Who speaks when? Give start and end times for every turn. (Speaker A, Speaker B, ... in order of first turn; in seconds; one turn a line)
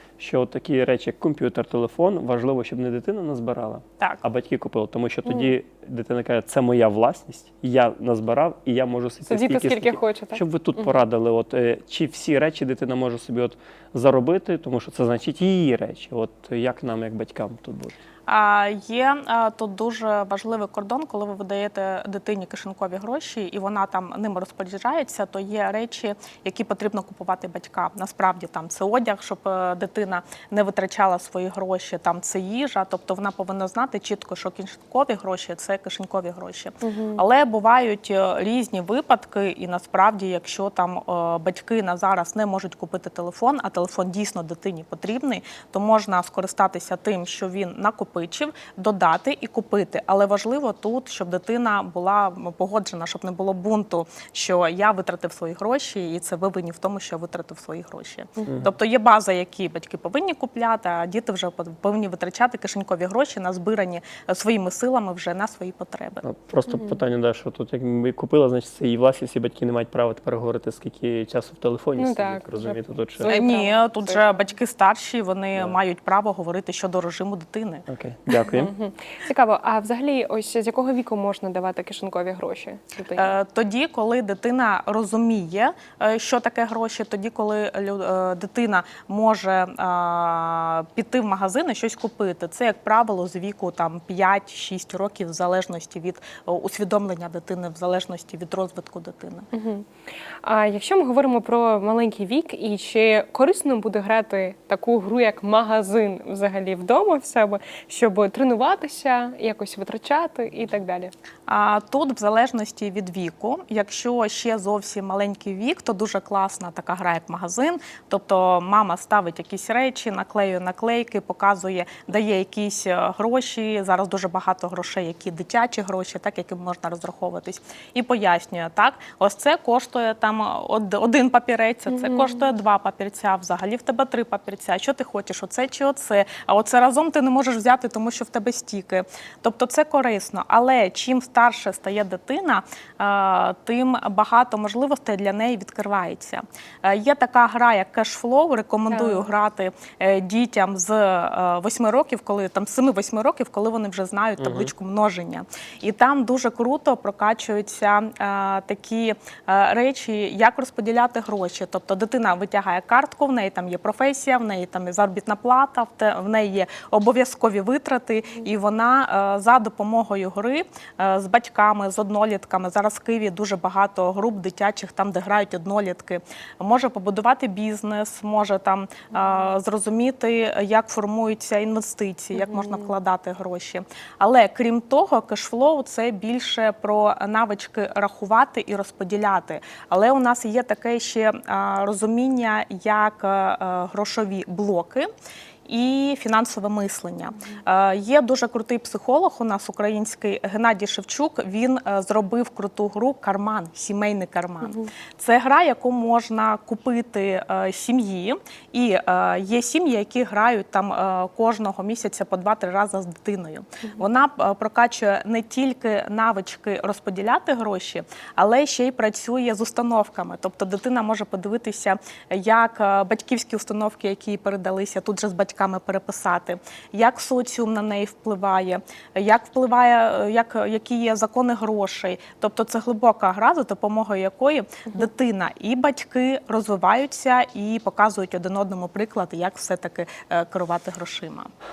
Speaker A: 0.2-17.9
Speaker B: 5.2-5.5
Speaker B: 9.3-11.0
Speaker C: 18.3-66.2
Speaker B: 36.8-37.2
Speaker A: 66.2-73.3
Speaker B: 66.7-67.0
Speaker B: 72.0-74.2
Speaker C: 73.3-77.8
Speaker A: 77.9-78.7
Speaker B: 78.3-83.3
Speaker C: 83.2-99.5
Speaker B: 99.5-99.8
Speaker B: 100.4-111.1
Speaker C: 111.5-195.1
Speaker B: 131.9-132.4
Speaker B: 148.9-149.3
Speaker A: 154.4-154.7
Speaker B: 179.1-179.5
Speaker B: 182.3-182.9
Speaker C: 195.7-241.5
Speaker B: 204.6-204.9